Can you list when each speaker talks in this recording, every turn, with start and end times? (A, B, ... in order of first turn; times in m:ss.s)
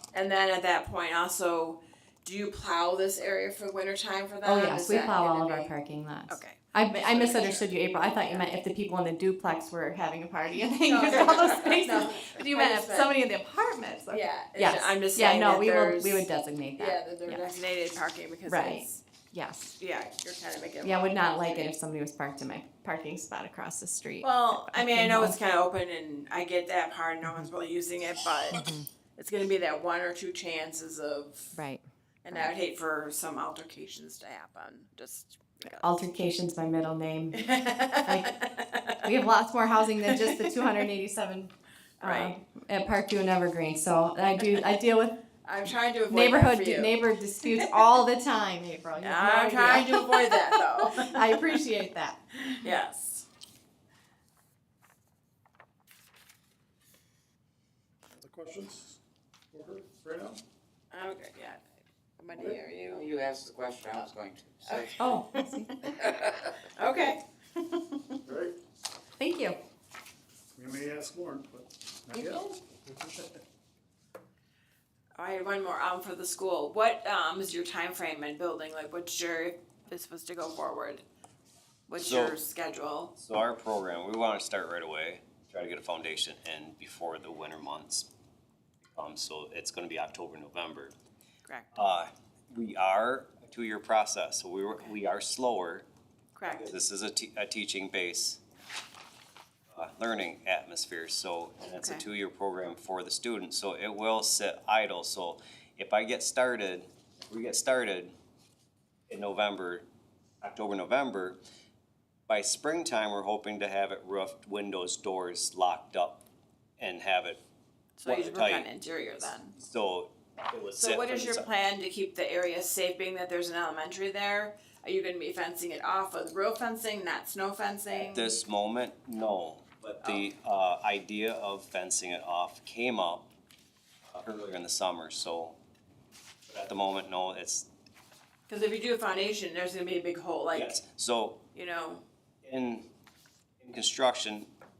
0:00.1-0:05.7 A
0:04.4-0:17.4 B
0:06.3-0:08.4 A
0:10.8-0:13.1 A
0:14.1-0:19.0 A
0:18.5-0:19.7 B
0:19.8-0:21.7 A
0:20.8-0:25.4 B
0:24.2-0:28.6 A
0:28.5-0:28.9 B
0:29.2-0:31.6 A
0:31.6-0:32.5 B
0:32.2-0:35.9 A
0:35.7-0:37.5 B
0:37.4-0:39.1 A
0:38.0-0:38.4 B
0:39.0-0:45.2 B
0:40.1-0:40.7 A
0:42.0-0:42.4 A
0:45.4-0:47.5 A
0:46.1-0:52.2 B
0:49.0-0:51.6 A
0:52.4-0:53.3 A
0:58.1-0:59.0 C
0:59.5-1:00.4 C
1:00.9-1:01.6 A
1:02.2-1:03.1 A
1:02.9-1:05.0 D
1:04.6-1:05.8 A
1:05.0-1:05.8 B
1:05.8-1:06.5 D
1:06.8-1:08.2 A
1:08.3-1:08.6 C
1:09.2-1:09.6 B
1:10.6-1:13.3 C
1:15.2-1:21.0 A
1:21.9-1:23.1 A
1:22.0-1:22.4 E
1:23.2-1:28.1 E
1:29.0-1:31.0 E
1:31.8-1:35.9 E
1:36.4-1:36.7 A
1:36.5-1:38.4 E
1:39.8-1:48.1 E
1:41.7-1:42.0 A
1:49.1-1:49.9 E
1:50.4-1:51.4 E
1:52.3-1:56.2 E
1:56.8-1:57.4 E
1:58.0-1:59.5 A
1:58.0-1:58.7 E
1:59.6-2:01.5 E
2:00.8-2:08.4 A
2:08.0-2:13.3 E
2:14.1-2:15.6 E
2:16.5-2:17.7 E
2:18.5-2:20.8 A
2:20.5-2:21.4 E
2:21.5-2:22.0 A
2:22.4-2:22.9 E
2:23.6-2:24.5 E